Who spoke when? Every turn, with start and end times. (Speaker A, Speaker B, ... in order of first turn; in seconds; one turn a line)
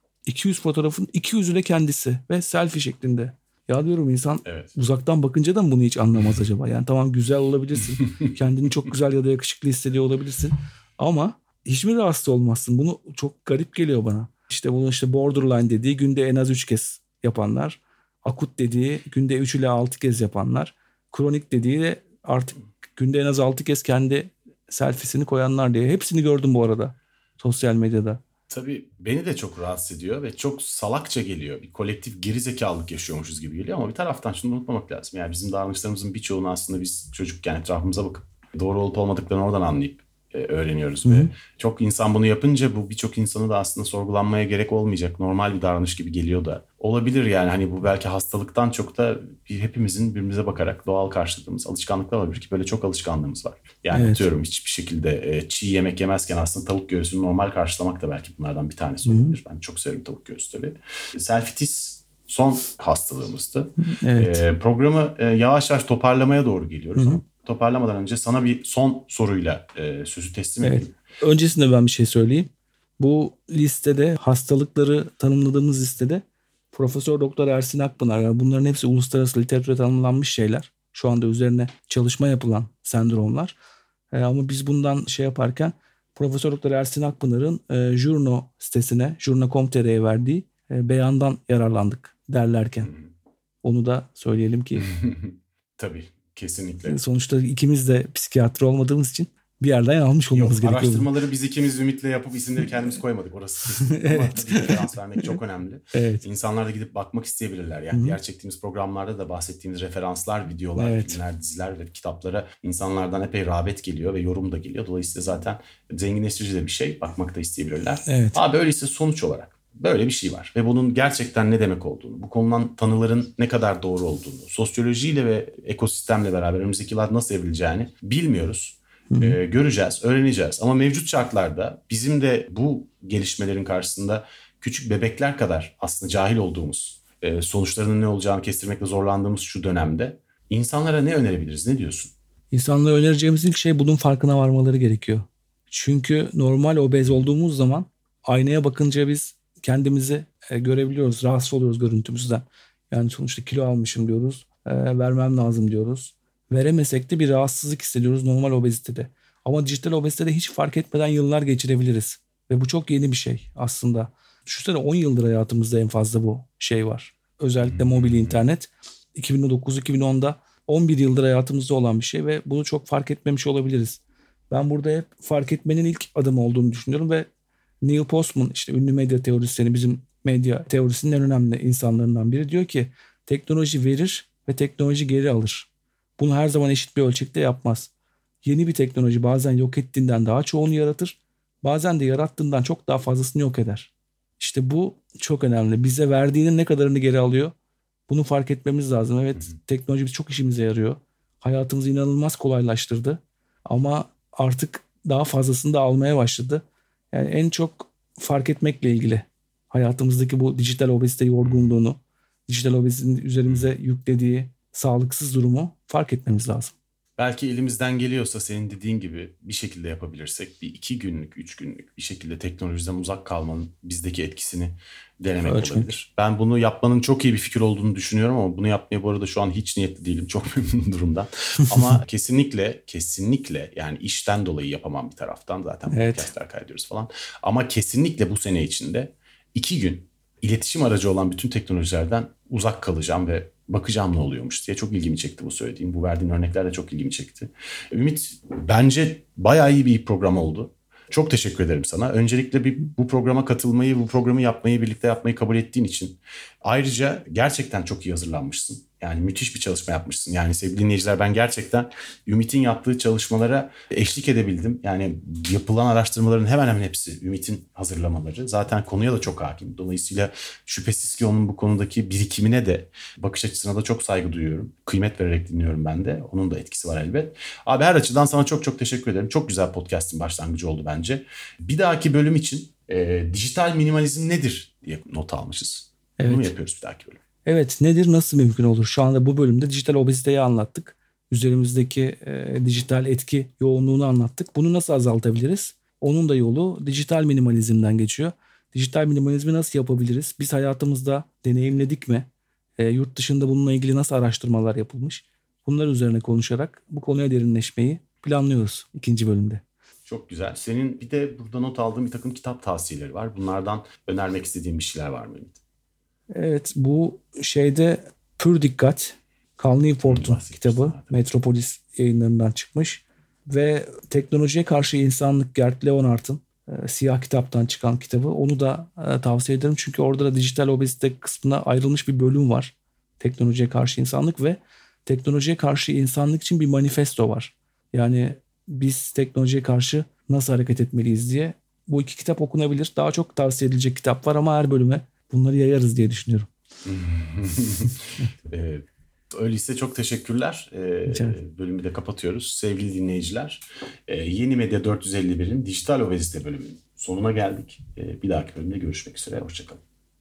Speaker A: 0.3-28.2
Speaker B: 4.4-4.7
Speaker B: 28.5-70.9
Speaker A: 41.0-41.3
Speaker A: 53.9-54.3
Speaker A: 59.0-59.4
Speaker A: 63.8-64.4
Speaker A: 67.0-67.2
Speaker A: 70.6-83.5
Speaker A: 84.1-92.9
Speaker A: 93.6-94.9
Speaker B: 94.8-97.0
Speaker A: 96.9-101.1
Speaker B: 100.3-142.1
Speaker A: 103.9-104.8
Speaker A: 105.9-106.2
Speaker A: 107.9-108.2
Speaker A: 110.8-111.2
Speaker A: 118.1-118.4
Speaker A: 129.1-129.4
Speaker A: 142.5-177.3
Speaker B: 167.6-168.4
Speaker A: 177.8-187.9
Speaker A: 188.4-197.5
Speaker A: 198.1-216.7
Speaker B: 211.4-211.7
Speaker B: 217.2-287.2
Speaker A: 225.4-225.9
Speaker A: 235.9-236.3
Speaker A: 286.2-286.5
Speaker A: 287.4-302.3
Speaker A: 302.8-309.6
Speaker B: 310.1-315.6
Speaker A: 316.3-346.5
Speaker B: 320.1-321.2
Speaker B: 346.8-359.8
Speaker A: 351.1-351.4